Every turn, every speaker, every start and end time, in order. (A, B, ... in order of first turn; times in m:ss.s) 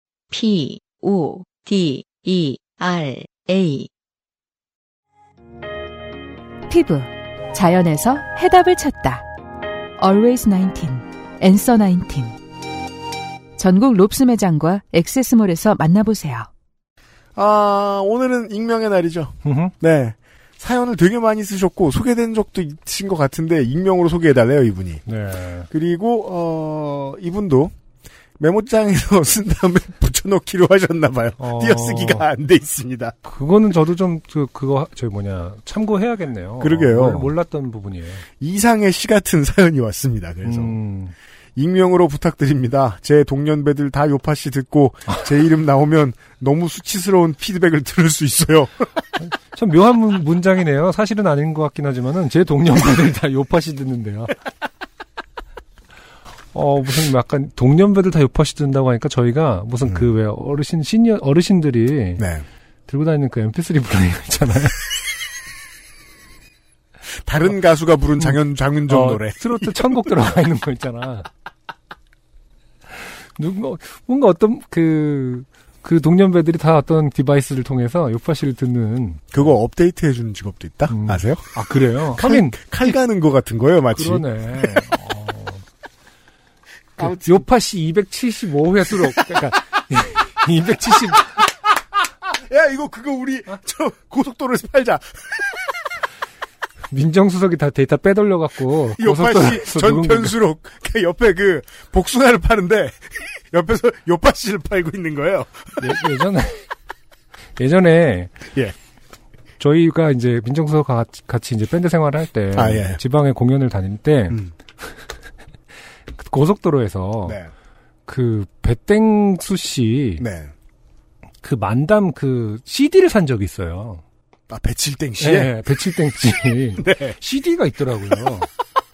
0:00.3-0:03.9 A
0:06.7-0:09.2 B
0:10.0-0:12.4 B
0:13.6-0:16.5 B
0:17.4-0:25.0 C
0:19.4-0:19.7 D
0:25.0-0:25.7 D
0:25.7-0:27.7 C
0:28.4-0:33.1 C
0:31.4-0:32.3 D
0:33.2-0:38.2 D
0:36.6-0:37.3 C
0:38.4-0:40.8 C
0:40.4-0:41.1 D
0:41.6-0:48.9 C
0:49.2-0:54.4 D
0:56.5-1:02.2 D
1:02.2-1:02.4 C
1:02.9-1:04.8 D
1:07.2-1:09.7 C
1:08.2-1:11.3 D
1:13.2-1:19.4 D
1:19.3-1:21.5 C
1:20.9-1:22.9 D
1:22.1-1:24.8 C
1:23.9-1:25.6 D
1:27.0-1:27.4 C
1:27.0-1:31.4 D
1:32.3-1:35.6 C
1:36.9-1:40.3 D
1:39.0-1:46.0 C
1:45.8-1:46.6 D
1:47.6-1:48.4 D
1:49.6-1:54.9 D
1:52.5-1:53.0 C
1:56.1-1:57.4 D
1:57.2-1:57.5 C
1:58.1-2:00.2 D
2:00.2-2:00.5 C
2:01.4-2:04.0 D
2:04.5-2:05.6 C
2:05.2-2:08.5 D
2:06.8-2:07.2 C